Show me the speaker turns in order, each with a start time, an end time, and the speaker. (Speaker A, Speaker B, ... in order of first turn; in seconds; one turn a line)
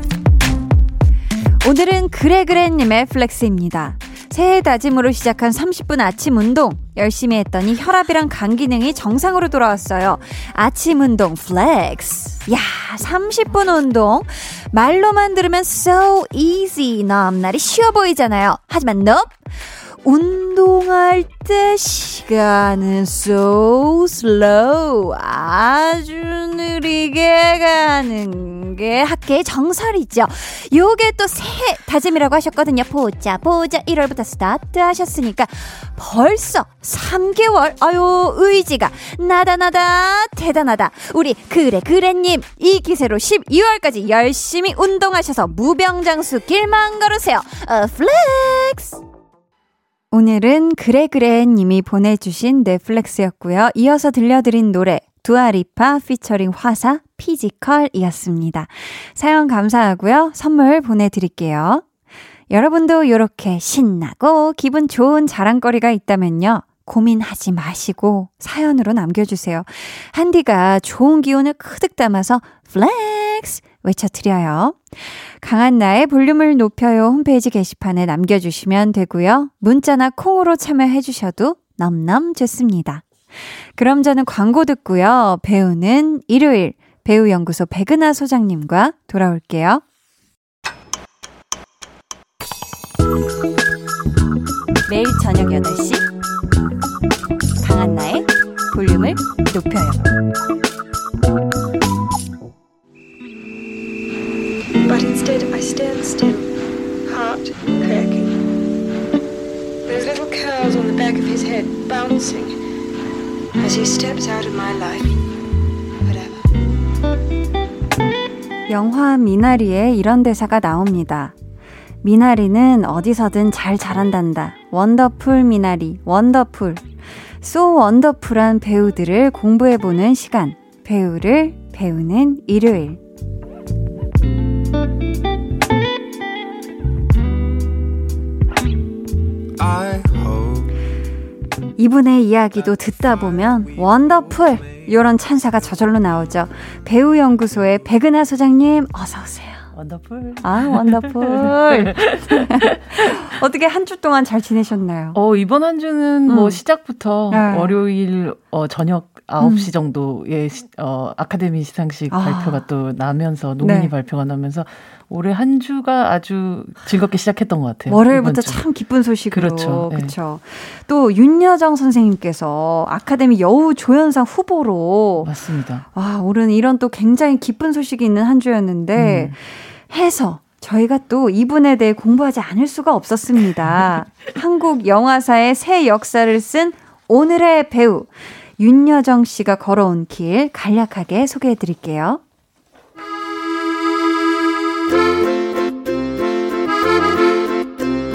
Speaker A: 1.6-19.4
Speaker A: 20.0-49.0
Speaker A: 50.1-61.8
Speaker A: 62.5-83.0
Speaker A: 83.8-89.8
Speaker A: 94.9-96.0
Speaker A: 97.6-100.1
Speaker B: 104.8-106.5
Speaker B: 107.1-108.3
Speaker B: 109.8-112.5
Speaker B: 113.6-115.1
Speaker B: 116.0-116.4
Speaker A: 118.7-121.3
Speaker A: 122.0-126.8
Speaker A: 127.4-133.0
Speaker A: 141.8-149.7
Speaker C: 149.7-153.2
Speaker A: 150.4-155.2
Speaker C: 155.1-168.6
Speaker A: 156.3-156.6
Speaker A: 157.3-157.7
Speaker A: 159.4-159.7
Speaker A: 162.1-162.6
Speaker A: 163.6-163.9
Speaker A: 167.9-175.3
Speaker C: 169.3-170.1
Speaker C: 175.2-175.8
Speaker A: 175.9-192.2
Speaker C: 178.9-179.3